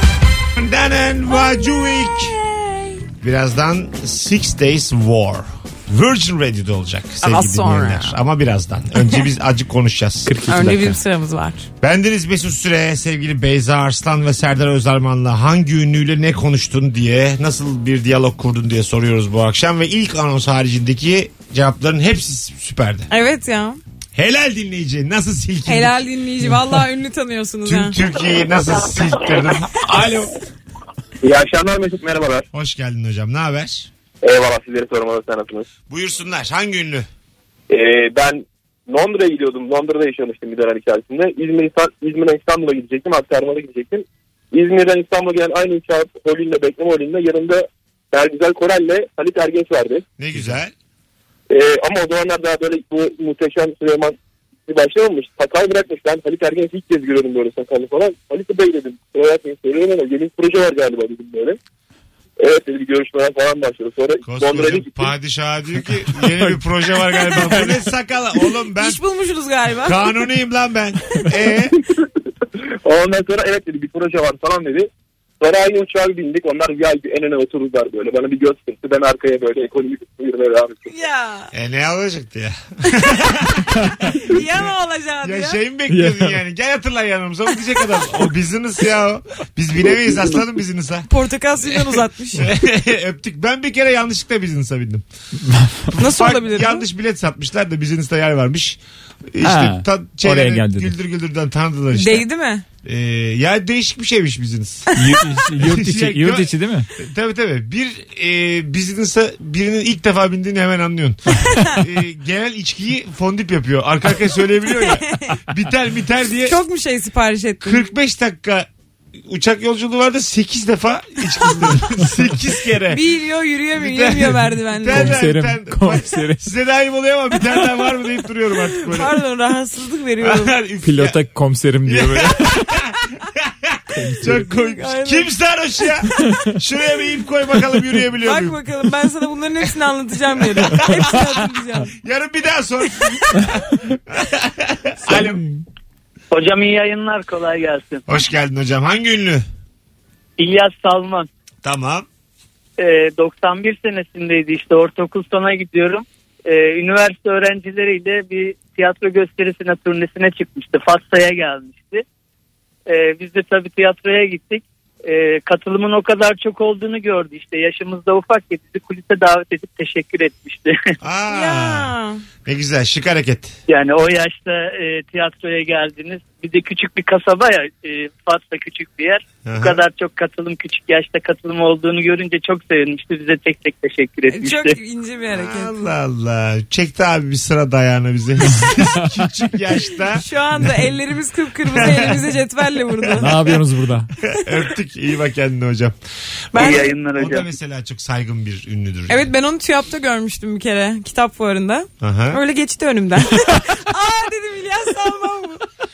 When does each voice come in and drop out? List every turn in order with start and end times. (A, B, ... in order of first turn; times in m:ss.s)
0:00.6-0:02.4 A
0:01.3-0:03.0 B
0:03.2-0:10.4 A
0:07.2-0:08.2 B
0:10.3-0:11.0 C
0:10.4-0:11.7 B
0:11.8-0:23.1 A
0:23.1-0:23.8 B
0:24.2-0:26.0 A
0:25.6-0:28.0 B
0:27.6-0:30.3 A
0:31.2-0:32.5 D
0:32.5-0:33.9 A
0:34.2-0:35.7 D
0:35.9-0:37.1 A
0:37.7-0:50.0 D
0:50.2-0:50.7 A
0:51.5-0:54.2 D
0:54.7-1:01.6 D
1:02.4-1:05.1 D
1:04.2-1:09.0 A
1:08.5-1:10.2 B
1:09.8-1:11.8 A
1:12.8-1:14.9 D
1:15.4-1:20.9 D
1:20.9-1:21.5 B
1:21.5-1:24.7 A
1:24.3-1:25.6 B
1:25.2-1:31.1 A
1:25.9-1:26.4 C
1:31.1-1:32.5 B
1:31.6-1:35.0 A
1:35.4-1:36.0 C
1:36.0-1:36.9 B
1:36.0-1:38.8 A
1:39.3-1:42.3 A
1:39.4-1:40.9 C
1:41.9-1:42.6 B
1:42.8-1:44.9 A
1:45.0-1:46.9 C
1:45.6-1:56.6 A
1:51.5-1:51.8 B
1:54.7-1:55.4 B
1:56.4-1:57.9 B
1:57.6-1:58.7 A
1:59.2-2:03.0 A
2:02.8-2:05.3 B
2:03.7-2:09.2 A
2:04.9-2:06.4 C
2:08.5-2:10.6 B
2:10.2-2:11.2 A
2:10.8-2:12.7 C
2:11.9-2:18.6 A
2:14.0-2:14.5 C
2:14.4-2:15.3 B
2:18.2-2:21.9 B
2:20.6-2:25.4 A
2:25.1-2:25.6 C
2:26.3-2:28.0 E
2:28.1-2:29.4 A
2:30.4-2:31.3 E
2:31.6-2:32.1 A
2:32.8-2:42.0 E
2:42.9-2:50.9 E
2:51.0-2:51.9 A
2:51.3-2:52.2 B
2:52.4-2:53.6 A
2:53.7-3:04.8 E
2:59.4-2:59.8 A
3:04.3-3:05.8 B
3:05.3-3:10.3 A
3:10.0-3:13.6 B
3:11.7-3:12.3 A
3:13.2-3:14.1 C
3:14.3-3:16.0 A
3:16.5-3:19.3 A
3:16.5-3:16.9 B
3:16.6-3:17.5 E
3:19.1-3:25.6 B
3:22.0-3:22.4 A